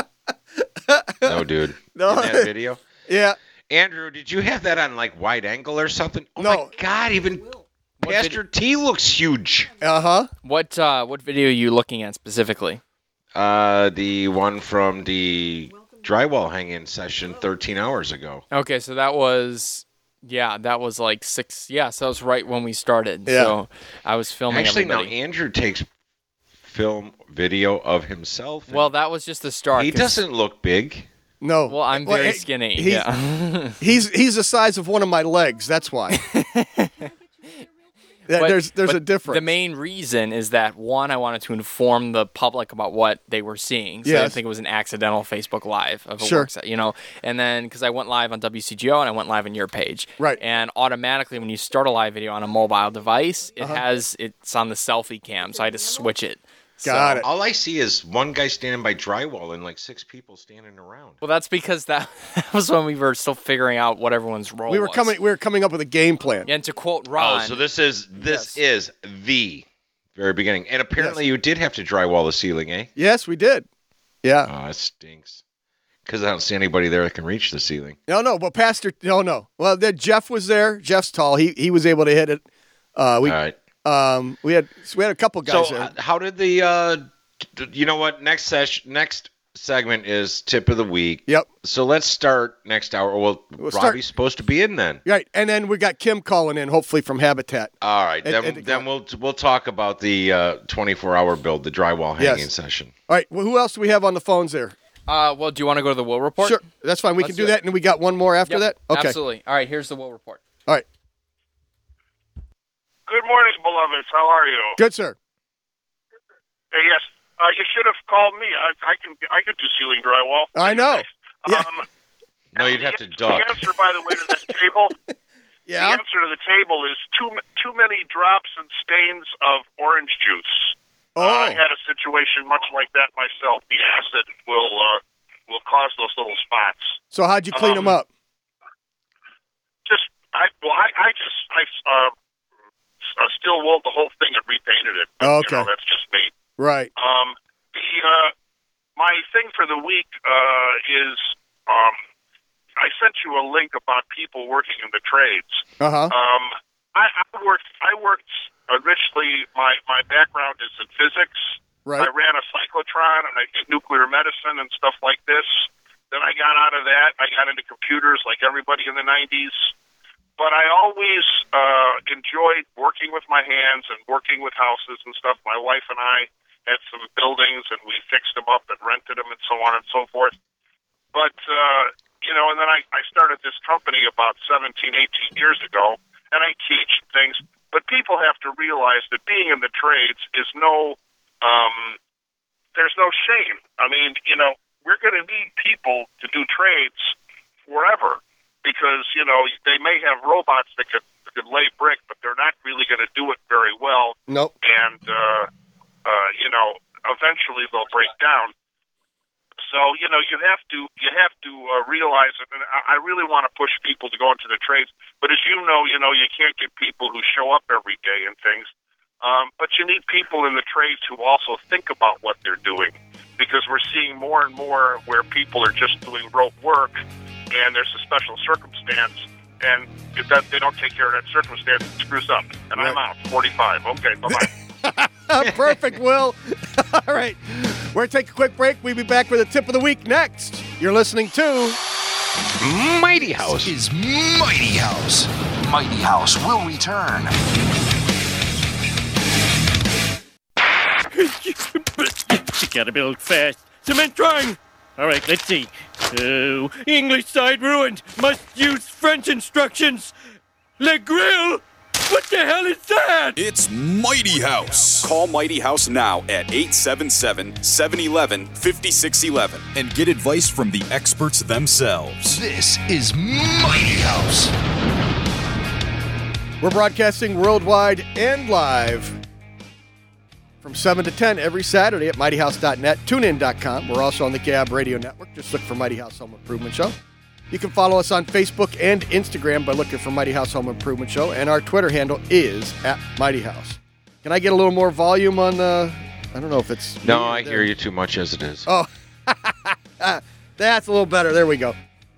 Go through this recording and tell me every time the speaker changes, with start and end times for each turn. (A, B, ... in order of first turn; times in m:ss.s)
0:00.9-0:02.5 A
0:01.2-0:02.8 B
0:03.1-0:03.4 A
0:03.7-0:09.8 B
0:06.4-0:06.7 A
0:08.0-0:08.4 C
0:09.8-0:10.3 A
0:10.4-0:12.8 C
0:13.3-0:18.4 B
0:18.5-0:25.1 C
0:23.3-0:23.6 A
0:24.5-0:25.9 B
0:26.6-0:28.9 B
0:28.7-0:30.2 C
0:29.8-0:31.1 B
0:31.4-0:33.1 A
0:31.7-0:33.8 C
0:33.8-0:36.2 A
0:36.1-0:37.0 C
0:38.3-0:39.5 A
0:38.3-0:57.3 C
0:44.0-0:44.4 A
0:46.2-0:46.5 A
0:56.8-0:57.3 A
0:57.2-1:01.2 B
1:01.2-1:05.1 C
1:04.7-1:06.5 A
1:06.4-1:07.6 C
1:07.1-1:12.9 B
1:08.2-1:08.5 C
1:13.0-1:13.6 A
1:14.2-1:14.5 A
1:14.4-1:15.4 B
1:16.0-1:18.0 B
1:18.1-1:22.4 A
1:23.0-1:25.9 A
1:23.2-1:23.6 B
1:25.4-1:35.0 B
1:33.6-1:34.0 A
1:35.0-1:38.8 A
1:37.8-1:42.9 B
1:42.2-1:42.5 A
1:43.1-1:44.8 A
1:45.1-1:46.7 C
1:46.4-1:49.2 A
1:47.2-1:47.6 C
1:48.5-1:50.4 C
1:53.1-1:54.8 D
1:54.8-1:55.2 A
1:56.7-2:01.8 D
2:00.6-2:01.6 A
2:02.5-2:03.6 B
2:02.6-2:04.9 D
2:05.7-2:06.0 A
2:05.7-2:17.0 D
2:11.2-2:11.6 A
2:17.1-2:18.1 A
2:17.5-2:18.0 D
2:19.9-2:22.1 D
2:23.0-2:26.3 D
2:25.2-2:25.7 A
2:26.6-2:26.9 A
2:27.0-2:28.3 D
2:29.0-2:32.0 D
2:32.8-2:49.7 D
2:35.8-2:36.1 A
2:50.4-3:00.3 D
3:01.1-3:12.0 D
3:12.8-3:17.2 D
3:17.6-3:25.5 D
3:24.3-3:24.5 A
3:26.0-3:28.5 D
3:29.6-3:38.7 D
3:39.2-3:54.5 D
3:54.3-4:01.8 A
4:02.6-4:03.7 B
4:03.5-4:07.3 E
4:11.1-4:20.1 F
4:20.8-4:23.4 F
4:23.4-4:32.4 G
4:32.3-4:34.5 E
4:36.6-4:39.2 A
4:40.6-4:46.9 A
4:47.5-4:57.7 A
4:57.0-4:58.7 B
4:58.6-5:01.8 A